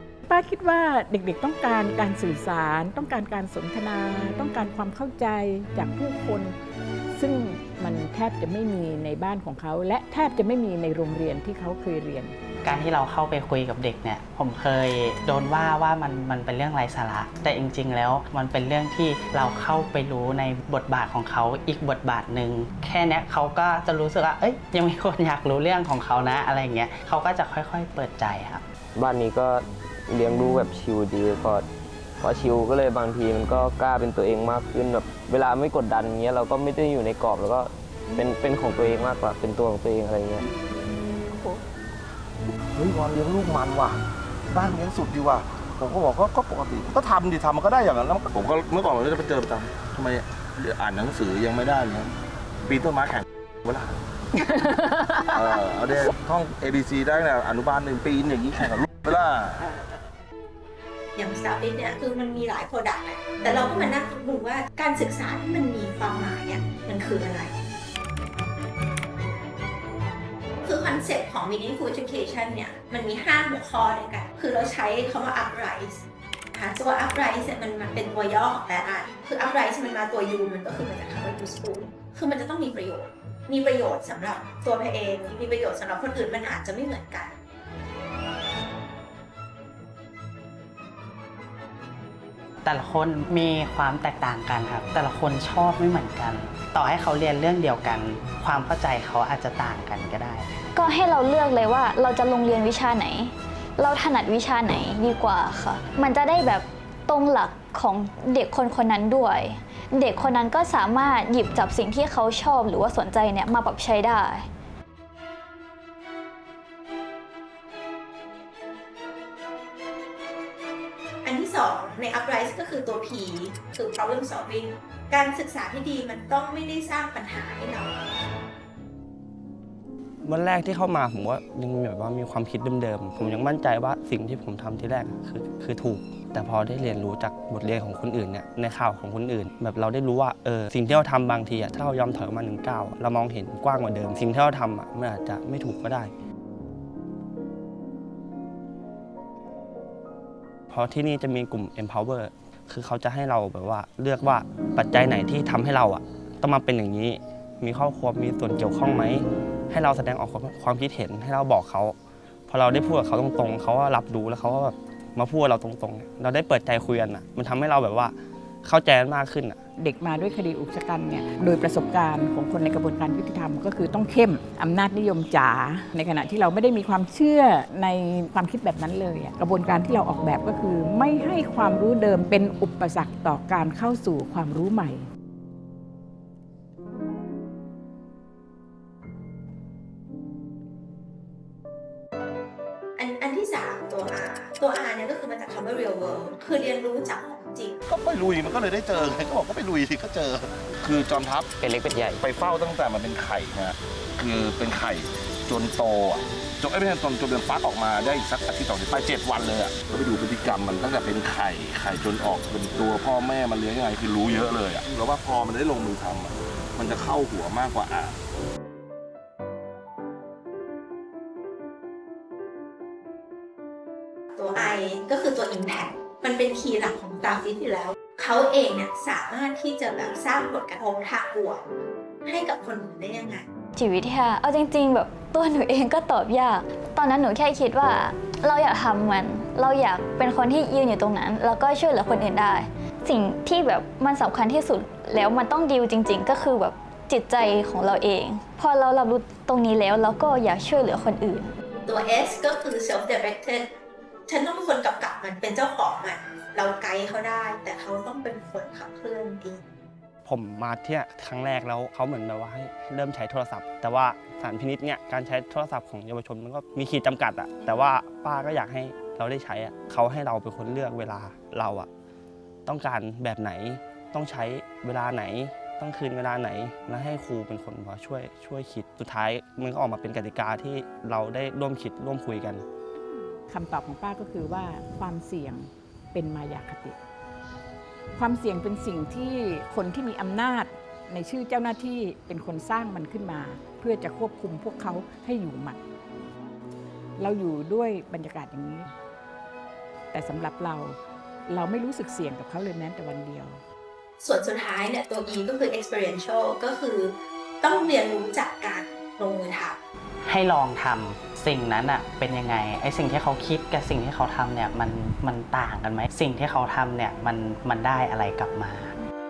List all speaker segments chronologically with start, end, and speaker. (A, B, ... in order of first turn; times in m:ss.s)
0:00.3-0:06.5 A
0:07.2-0:12.3 A
0:12.6-0:28.6 B
0:28.9-0:31.7 C
0:32.2-0:40.5 C
0:42.7-0:44.0 D
0:44.5-0:52.1 D
0:52.6-0:53.9 D
0:55.3-0:59.7 D
1:01.1-1:07.5 E
1:10.6-1:27.4 E
1:32.6-1:40.6 B
1:40.7-1:54.5 F
2:01.2-2:08.0 E
2:10.2-2:26.1 G
2:30.7-2:42.0 G
2:42.5-2:49.6 G
2:49.8-3:05.0 A
3:13.0-3:17.8 E
3:17.9-3:21.5 D
3:21.6-3:22.2 C
3:22.2-3:38.1 D
3:44.3-3:51.6 E
3:52.2-3:53.4 E
3:53.8-4:11.5 F
4:11.8-4:13.7 E
4:14.3-4:19.6 E
4:20.2-4:31.9 G
4:32.6-4:42.6 G
4:43.5-4:47.0 A
4:48.2-4:55.8 A
4:57.2-4:58.9 A
5:00.1-5:01.0 A
5:01.5-5:03.6 A
5:04.2-5:09.8 E
5:10.2-5:18.9 B